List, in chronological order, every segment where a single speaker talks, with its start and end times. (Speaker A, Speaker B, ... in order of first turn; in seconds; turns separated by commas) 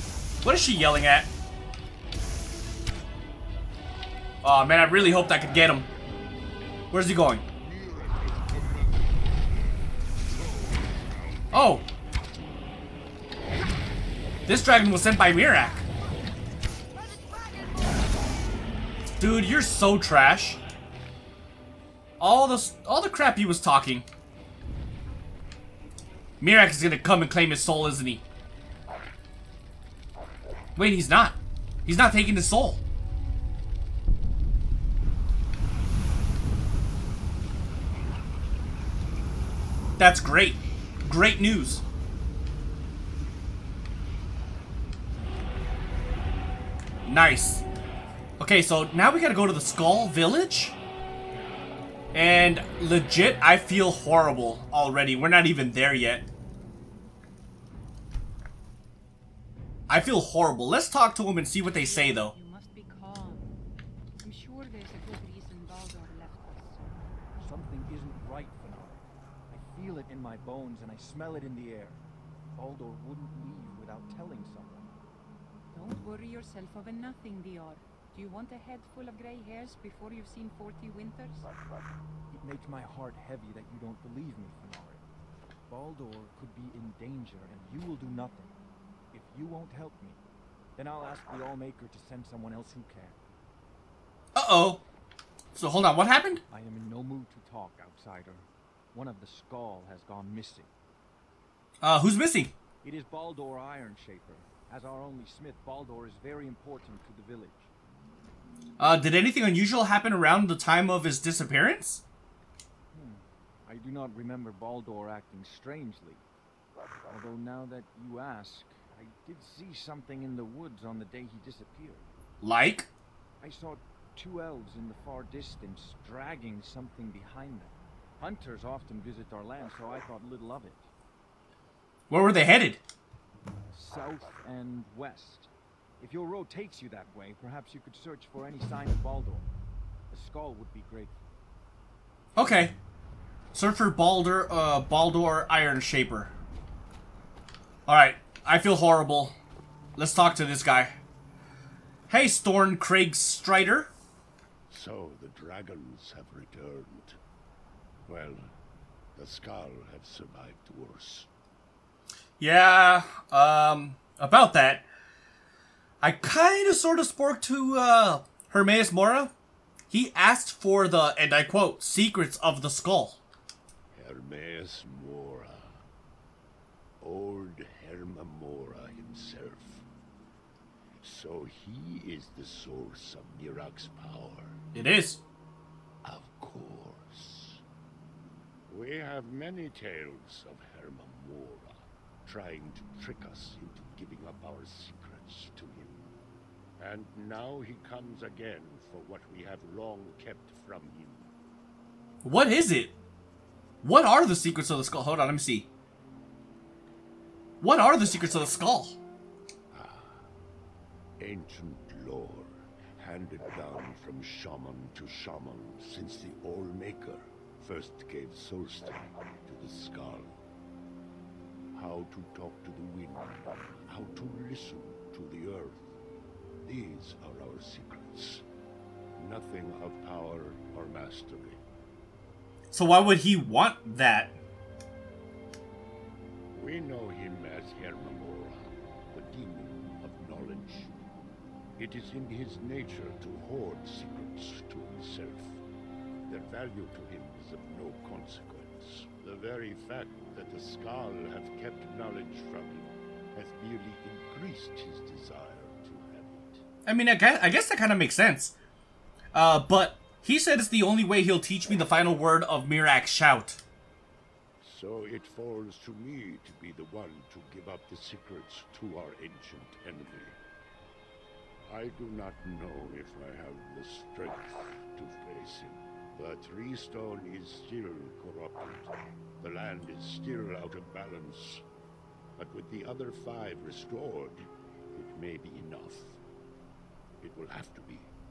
Speaker A: 0.4-1.3, Speaker A: 4.4-5.9, Speaker A: 6.9-7.4, Speaker B: 7.8-8.4, Speaker A: 11.5-11.8, Speaker A: 14.4-15.8, Speaker A: 19.2-20.6, Speaker A: 22.2-24.1, Speaker A: 26.4-28.2, Speaker A: 30.8-32.8, Speaker A: 40.0-41.8, Speaker A: 47.0-47.6, Speaker A: 48.4-50.8, Speaker A: 52.1-56.3, Speaker A: 59.9-62.3, Speaker C: 61.6-63.5, Speaker C: 64.2-66.9, Speaker D: 67.3-72.0, Speaker D: 72.5-74.9, Speaker C: 75.7-81.5, Speaker D: 82.3-85.0, Speaker D: 85.7-88.5, Speaker D: 89.1-90.2, Speaker D: 90.8-93.2, Speaker A: 94.3-94.8, Speaker A: 95.5-96.4, Speaker D: 96.5-100.7, Speaker A: 101.8-102.5, Speaker D: 102.8-107.7, Speaker A: 108.8-112.0, Speaker D: 112.9-116.2, Speaker D: 117.1-122.1, Speaker A: 122.4-122.9, Speaker D: 123.4-130.9, Speaker A: 132.1-132.8, Speaker D: 133.7-139.5, Speaker D: 140.1-141.2, Speaker A: 142.3-142.7, Speaker A: 143.5-146.3, Speaker A: 147.9-149.3, Speaker A: 150.0-151.0, Speaker A: 152.1-153.9, Speaker B: 154.7-157.2, Speaker B: 158.1-158.5, Speaker B: 159.2-161.3, Speaker A: 162.4-164.8, Speaker A: 166.0-169.3, Speaker A: 169.9-173.2, Speaker B: 173.9-175.8, Speaker B: 177.0-179.8, Speaker B: 181.0-184.6, Speaker A: 184.7-185.2, Speaker B: 186.0-187.6, Speaker B: 188.7-196.1, Speaker B: 196.8-201.3, Speaker A: 202.2-202.9, Speaker A: 203.8-205.7, Speaker A: 207.6-209.0, Speaker B: 209.7-210.3, Speaker B: 211.2-220.4, Speaker B: 221.7-225.9, Speaker B: 226.6-228.4, Speaker B: 229.2-231.6, Speaker A: 232.7-234.3, Speaker B: 236.5-241.0, Speaker B: 241.8-245.6, Speaker B: 246.3-256.6, Speaker A: 256.8-258.5, Speaker A: 259.3-263.6, Speaker B: 264.6-270.4, Speaker B: 271.6-281.6, Speaker B: 282.4-286.2, Speaker B: 287.2-288.1